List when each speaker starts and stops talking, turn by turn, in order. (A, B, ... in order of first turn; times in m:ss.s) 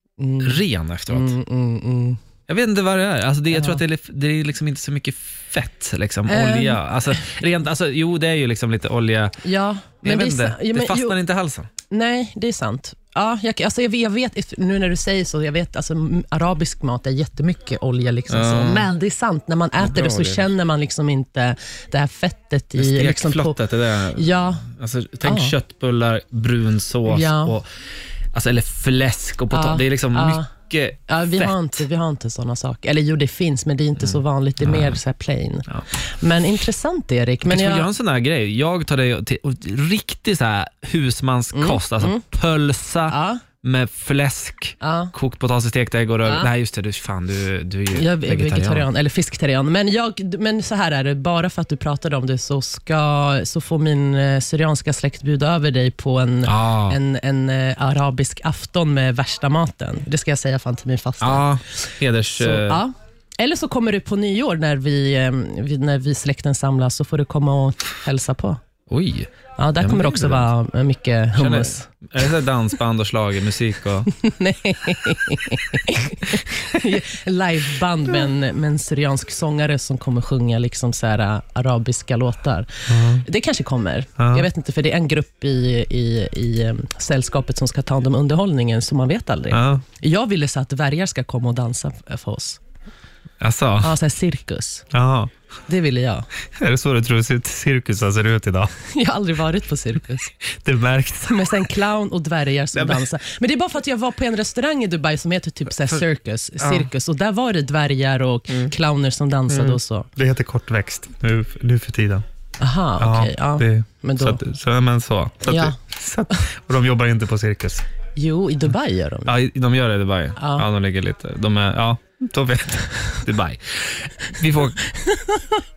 0:00.2-0:02.2 A
0:00.4-0:01.3 B
0:02.5-0:09.4 B
0:03.5-0:03.8 A
0:06.3-0:07.2 A
0:09.4-0:11.2 A
0:10.0-0:11.7 B
0:11.9-0:23.6 A
0:18.3-0:18.9 B
0:19.8-0:20.4 B
0:22.8-0:27.6 B
0:24.1-0:24.6 A
0:25.2-0:25.6 A
0:27.1-0:27.6 A
0:28.3-0:31.8 B
0:29.5-0:30.5 A
0:31.1-0:37.9 A
0:34.0-0:35.0 B
0:37.4-0:48.9 B
0:41.5-0:42.2 A
0:43.1-0:43.4 A
0:44.8-0:45.1 A
0:46.2-0:46.5 A
0:47.9-1:01.5 A
0:56.4-0:57.0 B
1:01.2-1:02.8 B
1:02.4-1:08.6 A
1:08.9-1:10.5 B
1:09.6-1:11.9 A
1:11.3-1:14.1 B
1:14.1-1:32.6 A
1:22.9-1:23.2 B
1:24.2-1:24.4 B
1:29.5-1:29.8 B
1:33.4-1:33.9 B
1:33.8-1:34.8 A
1:34.9-1:35.3 B
1:35.7-1:36.3 A
1:36.5-1:38.7 B
1:38.9-1:40.3 A
1:40.6-1:41.6 B
1:41.3-1:50.1 A
1:42.7-1:43.0 B
1:46.6-1:46.9 B
1:49.5-1:52.2 B
1:52.6-1:54.4 A
1:53.0-1:57.8 B
1:55.5-1:55.8 A
1:58.2-1:59.3 A
1:59.2-2:04.9 B
2:00.4-2:00.6 A
2:05.1-2:05.4 A